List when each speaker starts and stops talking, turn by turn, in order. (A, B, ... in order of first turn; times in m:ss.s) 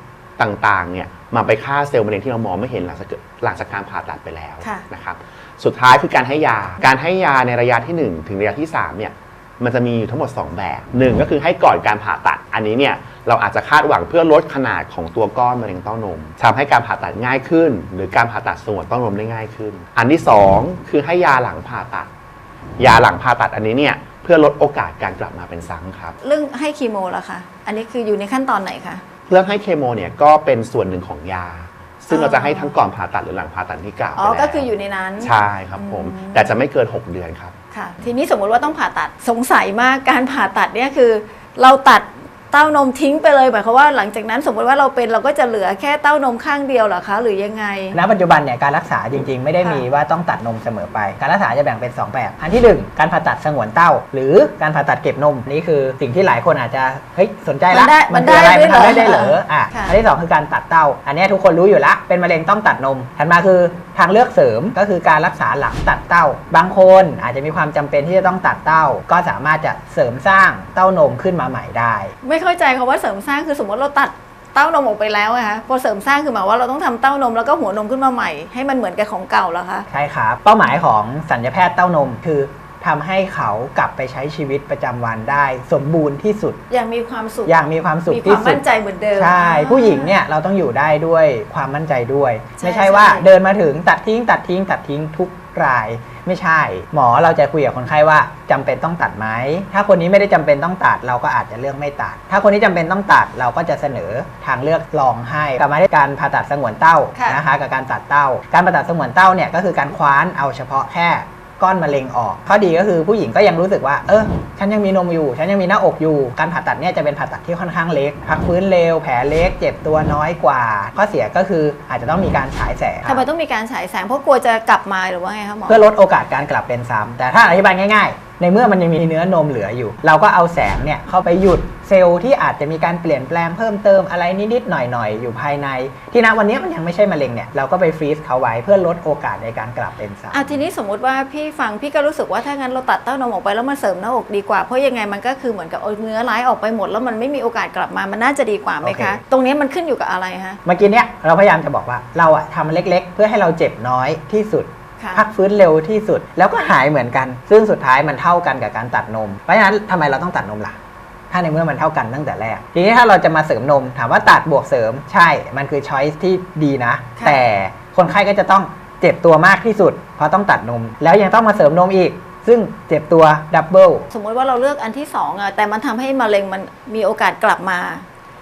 0:00.4-0:22.1 A
0:22.8-0:26.2 A
0:26.2-0:29.0 B
0:29.3-0:34.7 A
0:32.1-0:32.7 B
0:34.2-0:36.6 B
0:35.2-0:37.5 A
0:37.7-0:48.0 B
0:47.9-1:12.1 C
0:57.7-1:00.0 B
1:12.2-1:19.9 B
1:19.9-1:26.6 C
1:26.7-1:30.2 B
1:27.5-1:28.6 C
1:29.2-2:03.2 C
1:32.6-1:33.3 B
1:47.2-1:47.4 B
2:03.0-2:05.8 B
2:05.7-2:20.6 C
2:20.3-2:30.6 B
2:28.8-2:29.2 C
2:30.6-2:40.8 C
2:35.0-2:35.2 B
2:41.3-2:54.1 C
2:47.2-2:47.4 B
2:54.1-2:58.0 B